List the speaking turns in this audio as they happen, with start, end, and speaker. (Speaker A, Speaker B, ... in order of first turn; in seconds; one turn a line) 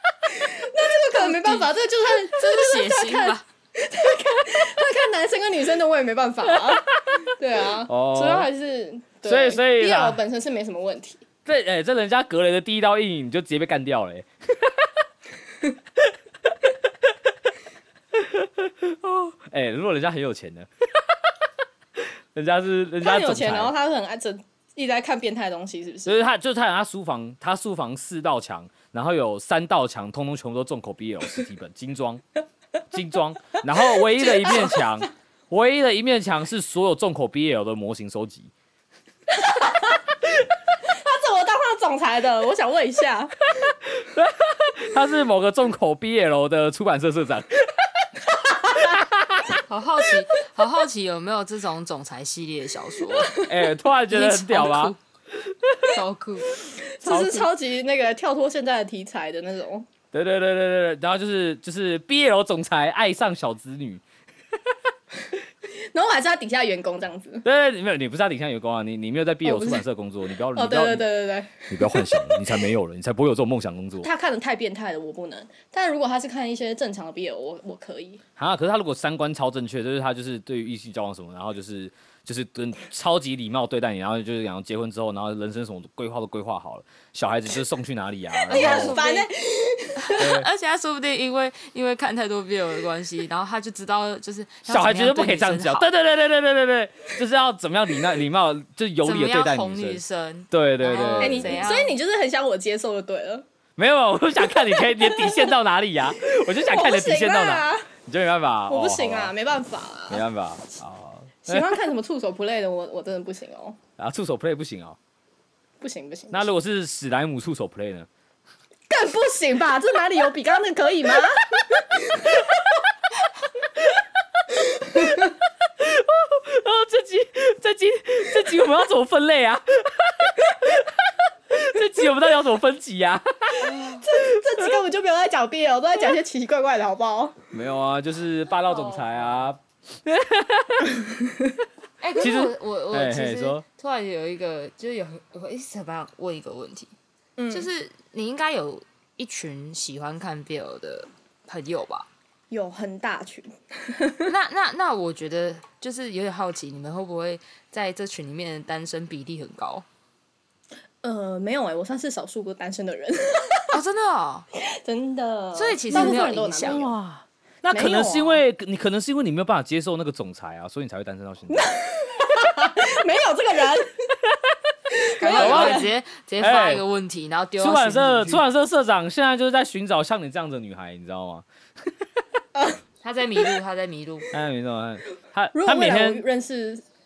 Speaker A: 0.3-11.2
Speaker B: 1.1-3.4
Speaker C: 6.4-7.2
Speaker C: 7.9-8.5
Speaker C: 9.2-10.2
Speaker C: 11.4-14.9
Speaker C: 16.5-17.1
Speaker C: 18.1-21.3
Speaker C: 22.0-23.7
Speaker A: 23.0-26.2
Speaker C: 26.1-32.2
Speaker C: 32.9-38.5
Speaker A: 34.0-34.8
Speaker A: 39.3-40.0
Speaker A: 40.9-43.5
Speaker C: 43.6-47.7
Speaker C: 48.9-49.5
Speaker B: 49.6-53.5
Speaker C: 53.4-55.9
Speaker B: 54.1-55.0
Speaker B: 55.8-56.5
Speaker A: 56.6-59.9
Speaker C: 57.0-57.5
Speaker C: 60.1-64.0
Speaker A: 65.7-67.4
Speaker C: 67.4-71.0
Speaker A: 69.4-69.8
Speaker A: 70.5-72.5
Speaker C: 71.7-74.1
Speaker A: 74.0-78.2
Speaker C: 78.4-89.0
Speaker B: 88.5-89.3
Speaker A: 88.5-90.3
Speaker B: 90.0-95.9
Speaker C: 90.2-90.5
Speaker C: 94.7-101.6
Speaker B: 99.0-102.0
Speaker A: 100.9-103.4
Speaker C: 103.8-109.3
Speaker A: 104.5-105.5
Speaker A: 106.3-107.9
Speaker A: 108.7-110.2
Speaker C: 110.1-111.8
Speaker A: 111.4-113.8
Speaker C: 114.0-115.0
Speaker A: 115.8-116.5
Speaker C: 116.3-118.1
Speaker A: 118.9-122.6
Speaker A: 124.7-125.3
Speaker C: 125.6-134.7
Speaker B: 133.6-134.0
Speaker A: 133.9-137.4
Speaker C: 137.5-141.0
Speaker B: 142.0-146.9
Speaker C: 142.2-143.6
Speaker A: 147.4-147.7
Speaker B: 147.5-152.1
Speaker A: 152.5-154.3
Speaker B: 154.2-159.8
Speaker A: 161.0-163.8
Speaker B: 163.7-164.5
Speaker A: 164.5-166.9
Speaker B: 165.5-166.8
Speaker C: 165.9-171.7
Speaker A: 167.7-168.4
Speaker A: 171.5-174.1
Speaker A: 174.9-175.9
Speaker B: 175.2-178.4
Speaker C: 175.3-175.9
Speaker C: 176.4-176.8
Speaker C: 177.6-181.9
Speaker B: 183.0-184.3
Speaker C: 184.3-186.2
Speaker A: 185.5-186.8